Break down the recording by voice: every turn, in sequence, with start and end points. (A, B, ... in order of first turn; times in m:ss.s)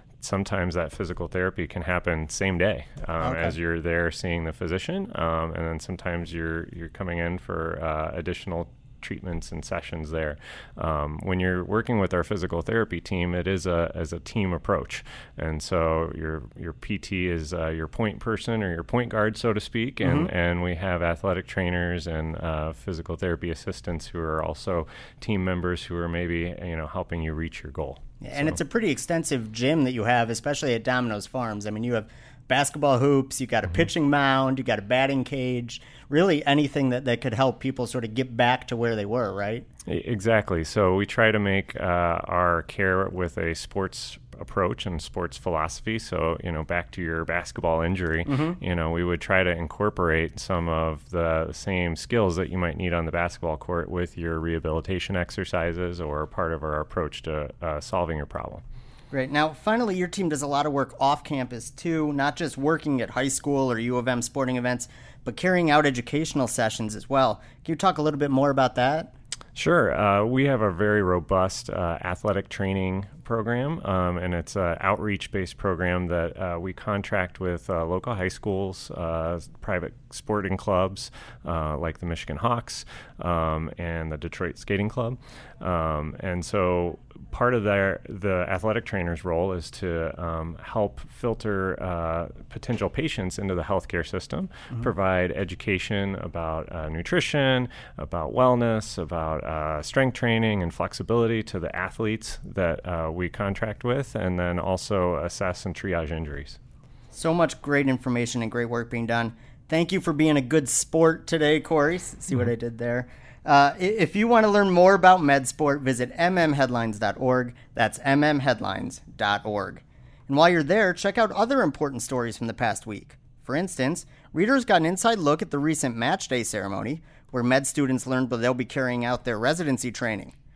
0:00.2-0:28.6 A
0:03.2-0:03.5 B
0:20.0-0:20.3 B
0:28.2-0:39.6 B
0:39.9-0:58.6 A
0:48.2-0:48.6 B
0:59.1-1:09.1 B
1:09.5-1:46.6 A
1:47.1-2:10.3 B